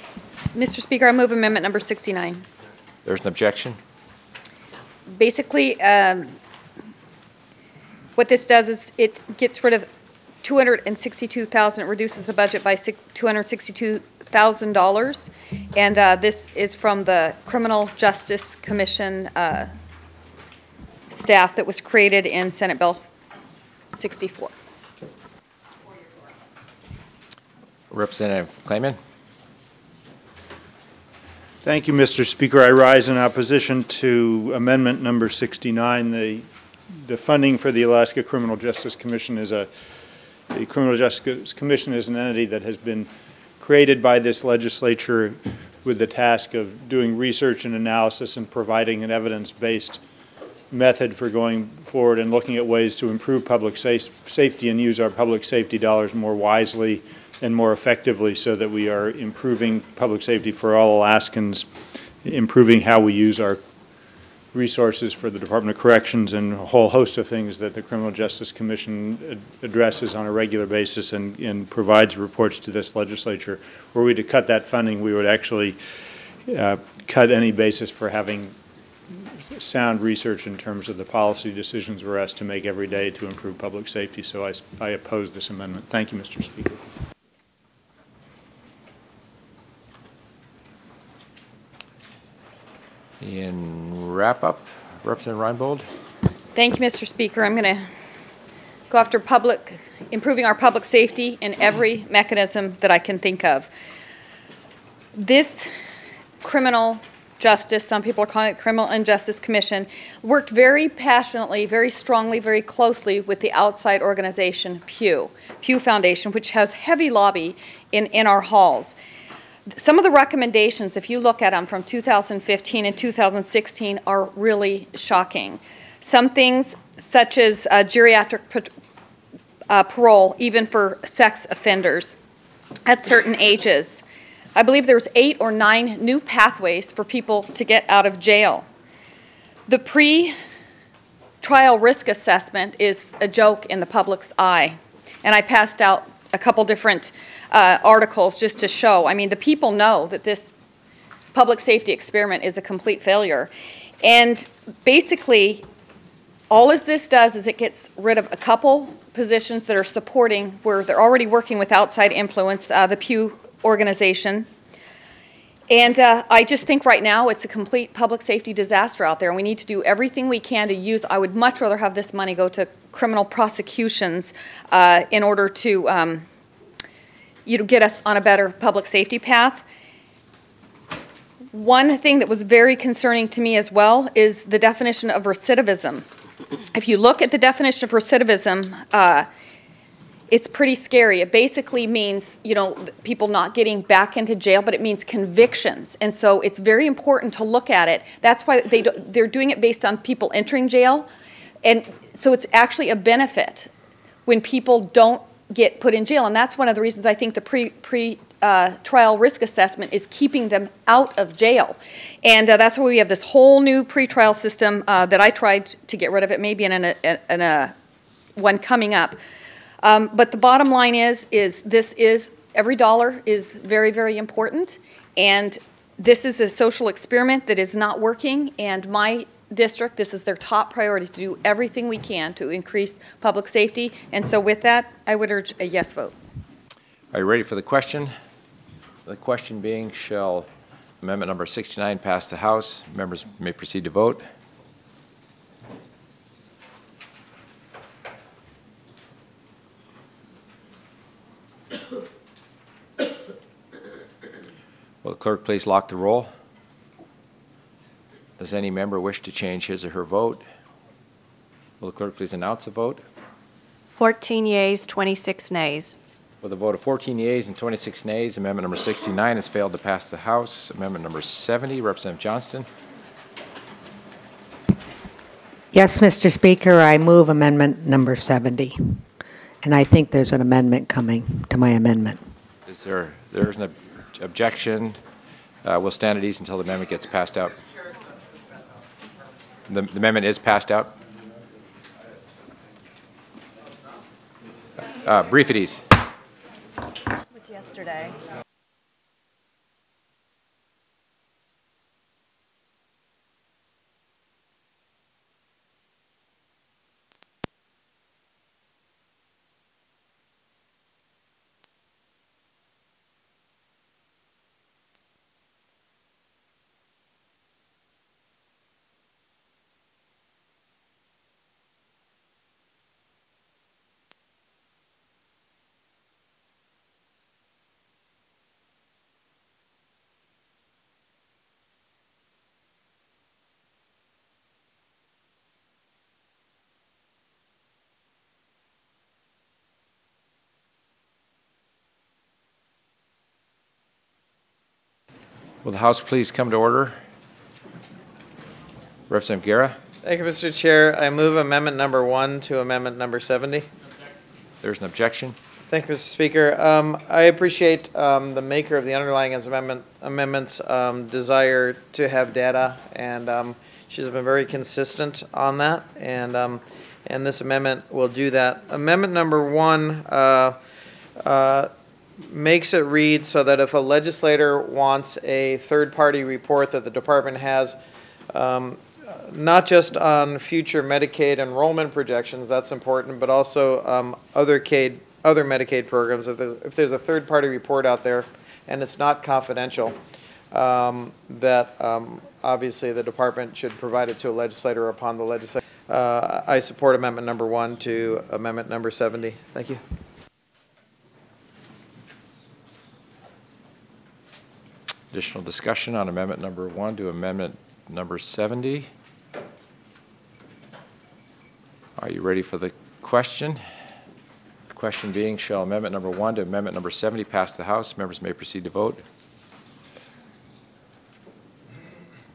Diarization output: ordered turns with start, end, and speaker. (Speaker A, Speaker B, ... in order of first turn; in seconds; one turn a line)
Speaker A: 0.5-2.4
Speaker B: 3.0-3.8
Speaker A: 5.2-6.3
Speaker A: 8.2-9.9
Speaker A: 10.4-19.7
Speaker A: 21.1-23.0
Speaker A: 23.9-24.5
Speaker B: 27.9-29.0
Speaker C: 31.6-36.5
Speaker C: 37.1-39.7
Speaker C: 40.5-43.1
Speaker C: 43.6-50.0
Speaker C: 50.7-61.6
Speaker C: 62.2-63.6
Speaker C: 64.5-75.8
Speaker C: 76.5-78.5
Speaker C: 79.5-86.8
Speaker B: 93.2-95.8
Speaker A: 96.5-97.8
Speaker A: 98.9-103.7
Speaker A: 105.2-105.7
Speaker A: 106.4-118.9
Speaker A: 119.7-128.7
Speaker A: 129.7-132.2
Speaker A: 132.9-134.0
Speaker A: 134.6-138.6
Speaker A: 139.7-140.3
Speaker A: 141.4-150.5
Speaker A: 151.3-153.5
Speaker A: 154.0-155.7
Speaker A: 156.5-164.5
Speaker A: 165.7-176.2
Speaker A: 177.4-179.6
Speaker A: 181.5-186.0
Speaker A: 186.7-189.3
Speaker A: 190.3-201.1
Speaker A: 201.6-203.7
Speaker A: 204.3-217.7
Speaker A: 218.4-219.2
Speaker A: 219.8-236.1
Speaker B: 237.1-238.1
Speaker B: 239.1-240.5
Speaker B: 241.0-244.2
Speaker B: 255.0-256.3
Speaker B: 258.4-260.4
Speaker B: 261.8-263.0
Speaker D: 263.9-265.9
Speaker B: 266.4-272.7
Speaker E: 275.7-279.0
Speaker E: 279.6-282.2
Speaker B: 282.6-285.0
Speaker B: 285.6-287.6
Speaker B: 289.7-290.9
Speaker B: 295.0-295.8
Speaker B: 345.6-346.9
Speaker B: 349.1-349.8
Speaker F: 350.0-353.6
Speaker B: 354.6-355.4
Speaker F: 355.7-370.6
Speaker F: 371.2-371.7
Speaker F: 372.3-377.8
Speaker F: 378.3-389.9
Speaker F: 390.5-399.8
Speaker B: 405.1-408.9
Speaker B: 412.0-413.6
Speaker B: 414.7-419.0